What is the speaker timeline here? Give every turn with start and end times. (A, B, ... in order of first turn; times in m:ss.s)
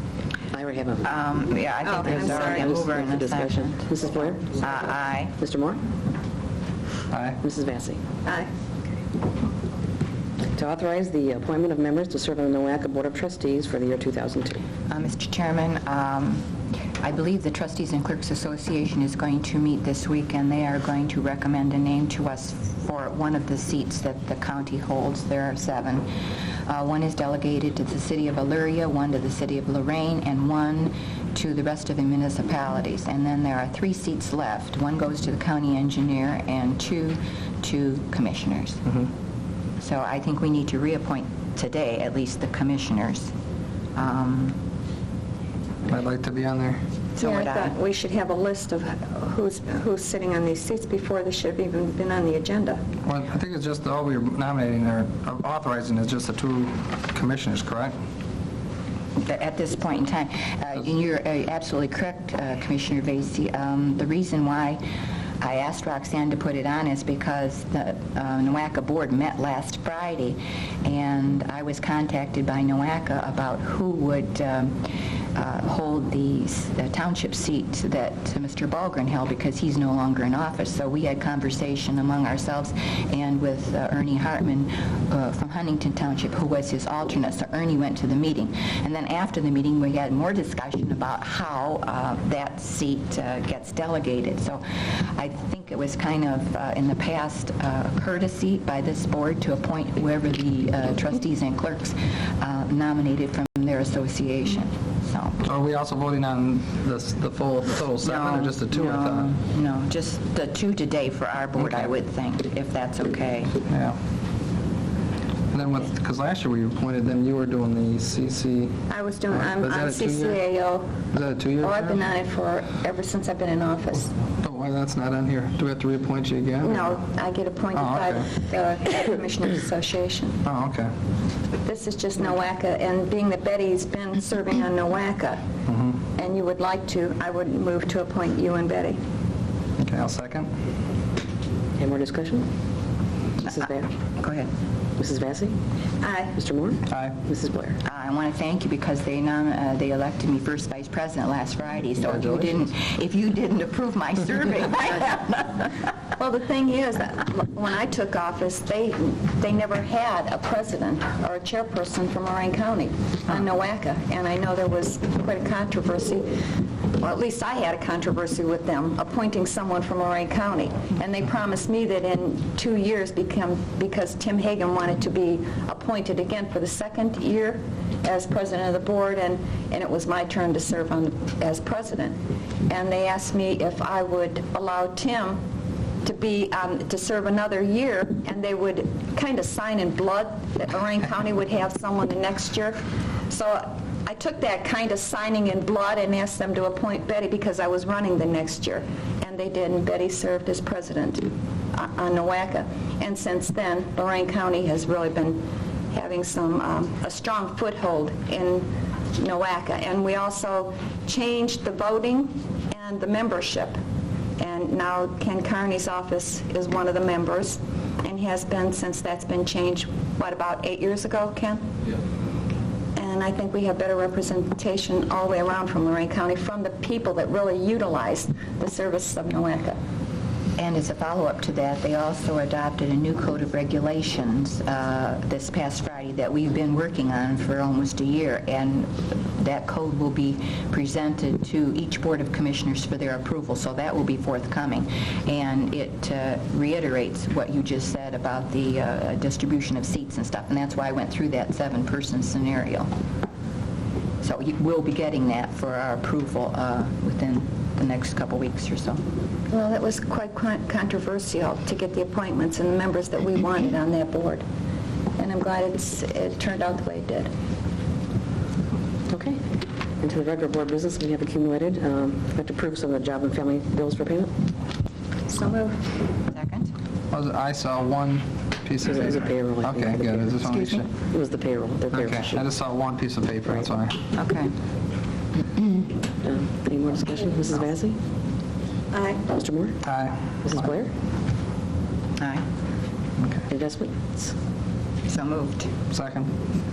0:00.5-0:01.0 A
0:01.0-0:03.9 B
0:01.8-0:02.8 C
0:02.0-0:04.6 A
0:04.4-0:05.4 B
0:05.4-0:05.8 A
0:07.1-0:07.4 D
0:07.4-0:08.0 A
0:10.5-0:14.6 A
0:14.9-0:16.5 B
0:17.0-0:26.1 B
0:26.7-0:38.8 B
0:39.8-0:43.3 B
0:44.0-0:44.6 B
0:45.9-0:46.8 D
0:47.1-0:47.7 B
0:47.2-0:52.8 C
0:53.1-0:57.9 D
0:59.2-1:04.8 B
1:05.4-1:45.4 B
1:45.4-1:49.3 D
1:48.0-1:53.6 B
1:51.6-1:51.9 D
1:53.7-1:54.0 D
1:55.5-1:58.8 D
1:58.9-2:00.9 C
1:59.3-2:00.4 D
2:01.1-2:02.0 D
2:01.6-2:04.1 C
2:04.4-2:07.0 D
2:06.6-2:10.4 C
2:07.7-2:08.3 D
2:10.4-2:10.9 D
2:11.6-2:15.4 C
2:15.7-2:16.0 D
2:16.2-2:19.0 C
2:19.8-2:20.5 D
2:21.8-2:22.5 A
2:23.4-2:23.9 A
2:24.2-2:24.5 B
2:25.0-2:25.5 A
2:26.0-2:26.4 C
2:26.3-2:27.8 A
2:26.9-2:27.2 D
2:27.8-2:35.9 B
2:32.0-2:32.6 D
2:36.2-2:46.3 C
2:47.0-3:02.2 C
3:02.7-3:05.4 C
3:06.0-3:33.8 C
3:34.4-3:41.6 C
3:43.0-3:49.8 C
3:50.6-4:12.9 B
4:14.2-4:19.0 B
4:19.5-4:24.4 C
4:25.2-4:27.3 C
4:29.1-4:29.4 A
4:30.0-4:34.3 A
4:35.3-4:35.8 C
4:36.3-4:36.7 B
4:37.1-4:40.9 D
4:38.9-4:40.6 A
4:41.1-4:42.4 A
4:41.9-4:44.0 D
4:44.1-4:44.5 B
4:46.2-4:48.0 A
4:48.9-4:49.3 C
4:49.3-4:49.8 A
4:49.8-4:50.4 D
4:50.4-4:50.9 A
4:52.2-4:52.4 B
4:53.2-4:53.5 D
4:53.5-4:54.3 A
4:55.1-4:55.7 B
4:55.9-4:56.3 D